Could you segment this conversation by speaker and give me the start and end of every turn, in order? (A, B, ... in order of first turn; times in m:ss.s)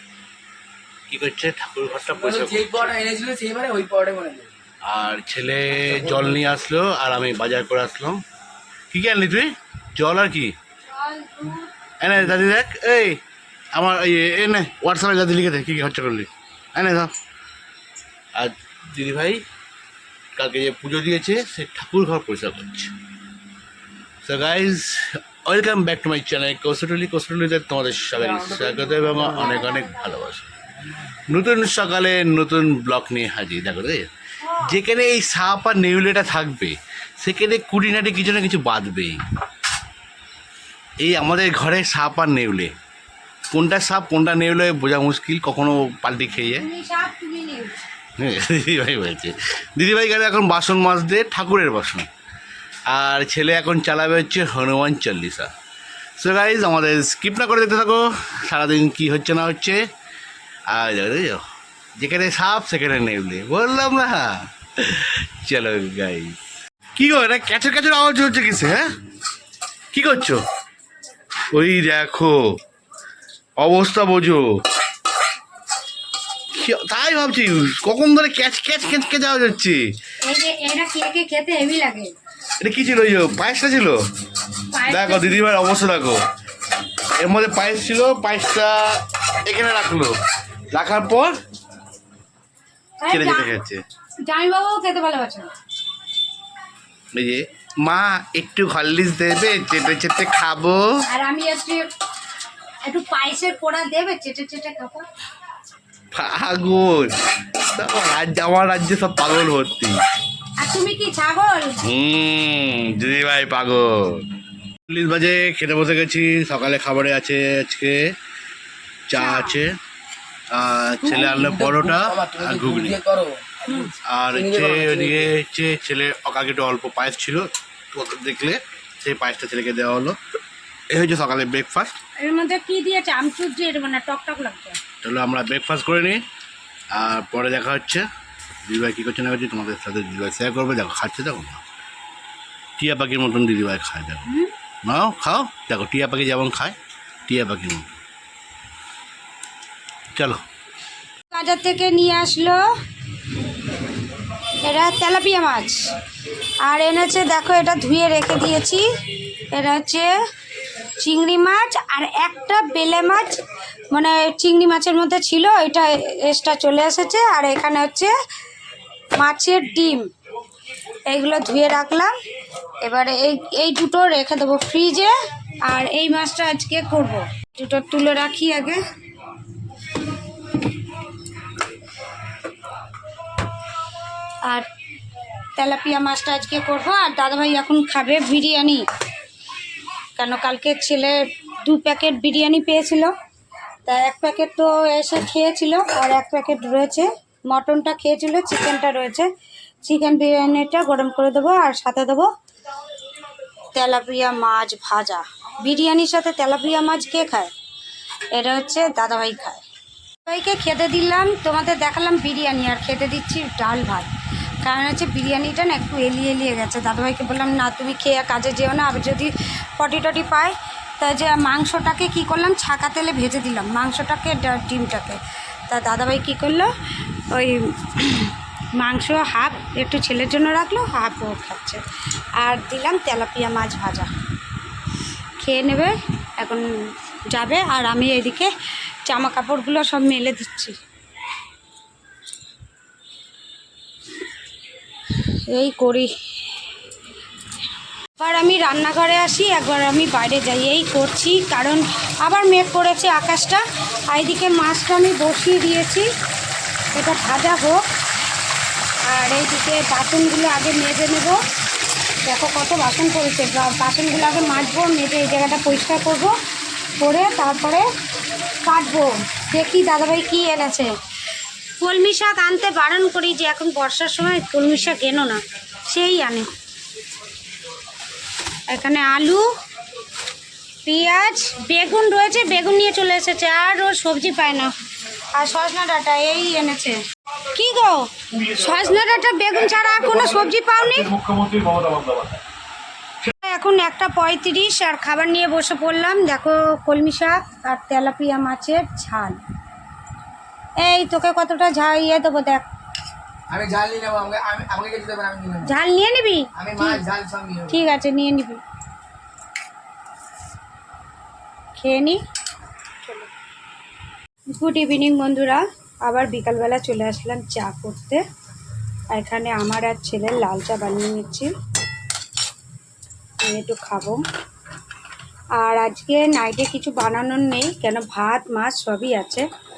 0:01.1-0:02.9 A
0:02.1-0:04.5 B
0:04.8-0:08.2 A
0:08.9-0:10.5 A
0:10.9-0:11.7 C
0:12.0-0:13.2 A
0:13.7-0:17.1 A
0:18.4-0:19.4 A
0:20.4-0:22.9 A
0:24.2-0:30.5 A
0:28.2-0:29.2 B
0:29.3-0:30.0 C
0:31.1-0:39.2 A
0:34.4-0:34.7 C
0:41.0-0:42.7 A
0:43.5-0:46.6 A
0:46.5-0:47.8 C
0:48.2-0:52.1 A
0:52.9-0:55.5 A
0:56.2-0:59.8 A
1:00.7-1:01.4 A
1:02.0-1:06.4 A
1:07.0-1:08.8 A
1:09.9-1:10.4 A
1:11.5-1:12.4 A
1:13.6-1:14.5 A
1:16.5-1:19.8 A
1:20.2-1:22.1 C
1:22.6-1:24.0 A
1:24.7-1:25.4 C
1:24.8-1:26.2 A
1:27.2-1:30.2 A
1:30.7-1:31.3 A
1:33.0-1:33.5 C
1:33.1-1:33.8 A
1:34.2-1:35.5 C
1:37.1-1:40.8 A
1:41.1-1:41.9 C
1:42.8-1:45.1 C
1:46.1-1:47.1 A
1:47.6-1:50.0 A
1:50.6-1:51.8 C
1:51.8-1:54.2 A
1:54.9-1:58.0 A
1:59.1-1:59.8 A
1:59.2-1:59.6 C
2:00.5-2:03.0 A
2:01.0-2:05.3 B
2:03.7-2:03.9 C
2:04.0-2:10.2 A
2:10.9-2:12.0 A
2:12.2-2:14.8 C
2:15.0-2:16.2 A
2:16.9-2:18.0 A
2:18.7-2:21.6 A
2:22.8-2:24.2 A
2:24.8-2:26.8 A
2:27.3-2:27.9 A
2:30.1-2:30.4 A
2:31.3-2:32.6 C
2:34.6-2:35.8 C
2:36.6-2:38.8 C
2:39.5-2:40.1 C
2:41.0-2:48.1 C
2:49.2-2:50.1 C
2:51.0-2:52.1 C
2:52.8-2:55.1 C
2:55.6-2:58.8 C
3:05.6-3:08.8 C
3:10.2-3:13.1 C
3:13.8-3:19.3 C
3:19.8-3:22.3 C
3:23.7-3:27.5 C
3:28.3-3:29.6 C
3:30.2-3:34.1 C
3:34.6-3:46.7 C
3:47.3-3:51.8 C
3:52.4-3:54.1 C
3:55.4-3:56.6 C
3:57.3-3:58.5 C
3:59.1-4:00.8 C
4:05.2-4:06.1 C
4:08.2-4:16.1 C
4:16.9-4:17.8 C
4:19.1-4:21.4 C
4:22.2-4:26.3 C
4:27.0-4:27.8 C
4:28.6-4:30.9 C
4:31.8-4:36.5 C
4:38.7-4:39.4 C
4:40.8-4:44.7 C
4:45.3-4:51.1 C
4:51.0-4:52.3 A
4:53.3-4:59.4 C
5:00.8-5:02.6 C
5:03.5-5:05.7 B
5:05.6-5:07.0 C
5:06.6-5:07.8 B
5:07.7-5:08.6 C
5:11.8-5:12.2 C
5:14.5-5:18.2 C
5:19.1-5:21.5 C
5:23.4-5:24.2 C
5:25.6-5:29.4 C